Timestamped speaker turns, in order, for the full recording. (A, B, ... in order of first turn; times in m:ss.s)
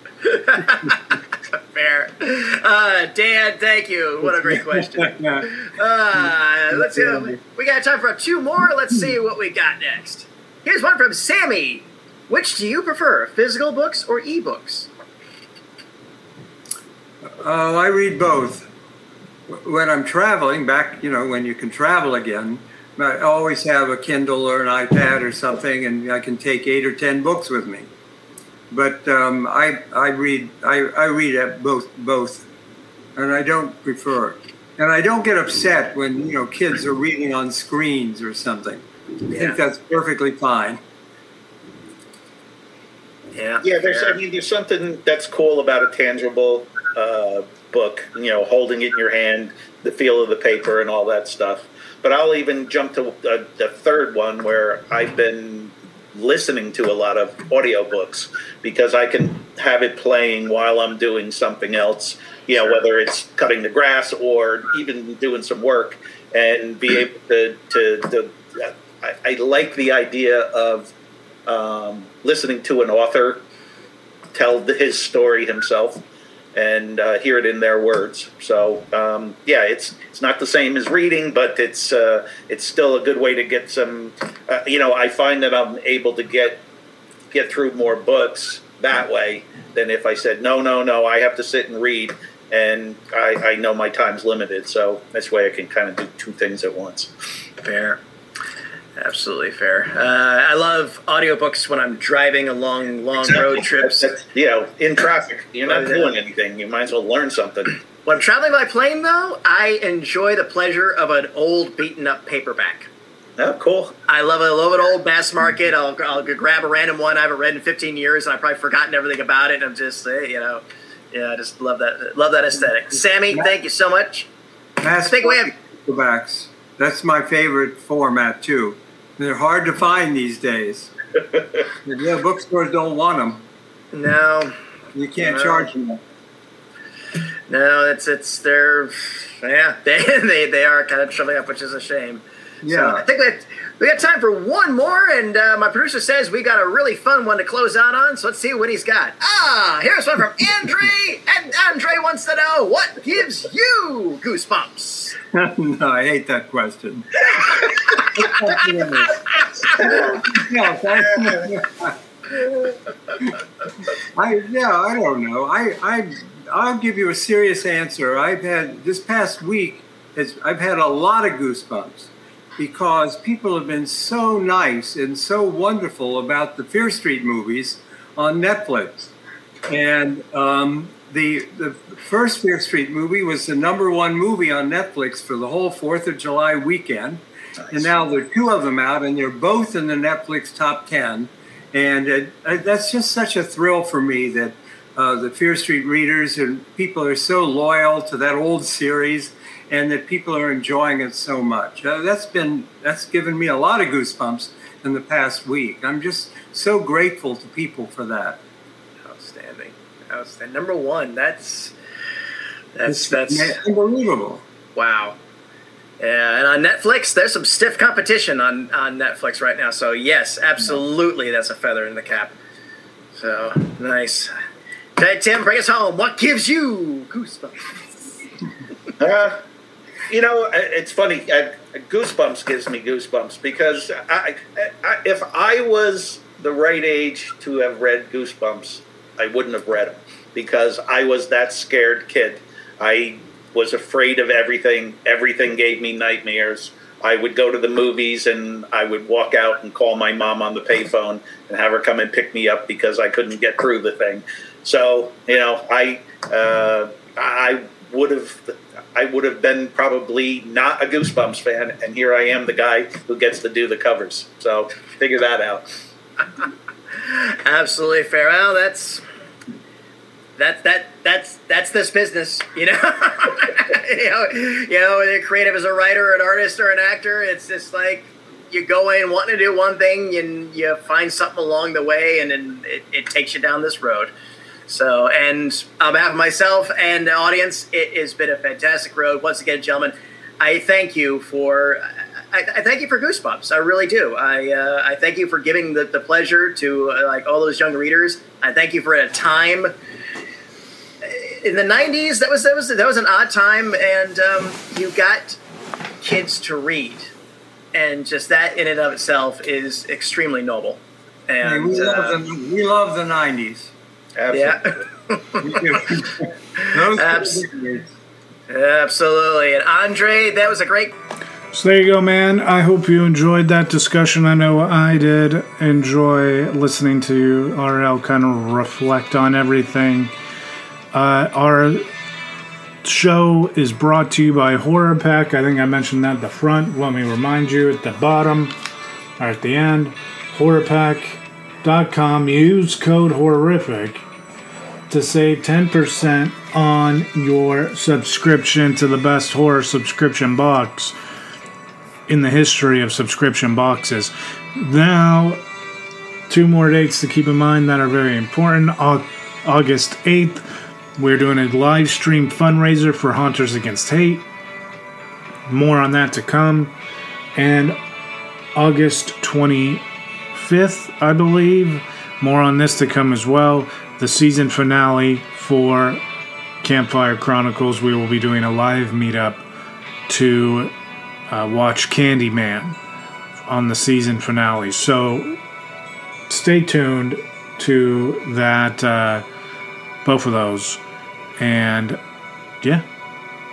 0:00.2-0:14.9 A
0:04.2-0:05.5 B
0:06.7-0:07.4 B
0:17.2-0:18.7 B
0:19.5-0:27.9 B
0:28.7-0:32.4 B
0:33.2-0:40.8 B
0:39.3-0:39.6 A
0:43.4-0:44.2 A
0:43.6-1:10.9 C
1:11.5-1:13.4 C
1:14.3-1:16.0 C
1:16.6-1:26.6 C
1:27.3-1:37.1 C
1:37.6-1:38.0 A
1:39.0-1:44.2 A
1:43.3-1:47.8 C
1:45.7-1:46.1 A
1:48.0-1:52.9 A
1:53.4-1:54.0 C
1:54.1-2:04.3 A
2:04.8-2:10.9 B
2:05.0-2:05.5 A
2:11.8-2:13.5 B
2:13.9-2:14.5 A
2:15.0-2:16.0 B
2:15.2-2:15.7 A
2:17.5-2:35.2 A
2:22.6-2:23.0 B
2:35.3-2:39.2 B
2:39.7-2:40.4 C
2:39.8-2:42.0 B
2:44.2-2:59.1 B
2:59.7-3:28.4 B
3:29.0-3:31.8 A
3:32.8-3:33.6 A
3:32.9-3:34.4 B
3:34.8-3:35.2 A
3:36.0-3:42.4 A
3:43.1-3:44.3 A
3:45.0-3:47.8 A
3:49.0-3:49.4 C
3:50.1-4:25.7 C
4:27.0-4:29.0 A
4:30.4-4:44.1 A
4:44.7-4:59.7 A
5:01.0-5:05.4 A
5:06.0-5:07.1 A
5:07.7-5:12.2 A
5:11.4-5:13.7 B
5:14.2-5:14.6 C
5:14.3-5:15.9 A
5:15.4-5:17.9 B
5:16.6-5:17.4 A
5:18.5-5:21.0 A
5:21.5-5:30.1 D
5:30.9-5:31.9 D
5:32.8-5:38.6 D
5:39.2-5:44.0 D
5:44.9-5:51.0 D
5:52.1-5:55.4 D
5:56.3-6:00.4 D
6:01.0-6:04.2 D
6:05.5-6:06.7 D
6:07.4-6:07.8 D
6:08.6-6:09.8 D
6:10.3-6:16.0 D
6:16.6-6:19.4 D
6:20.1-6:20.7 D
6:21.3-6:22.8 D
6:23.5-6:25.4 D
6:26.3-6:29.2 D
6:30.0-6:30.8 D
6:31.4-6:32.0 D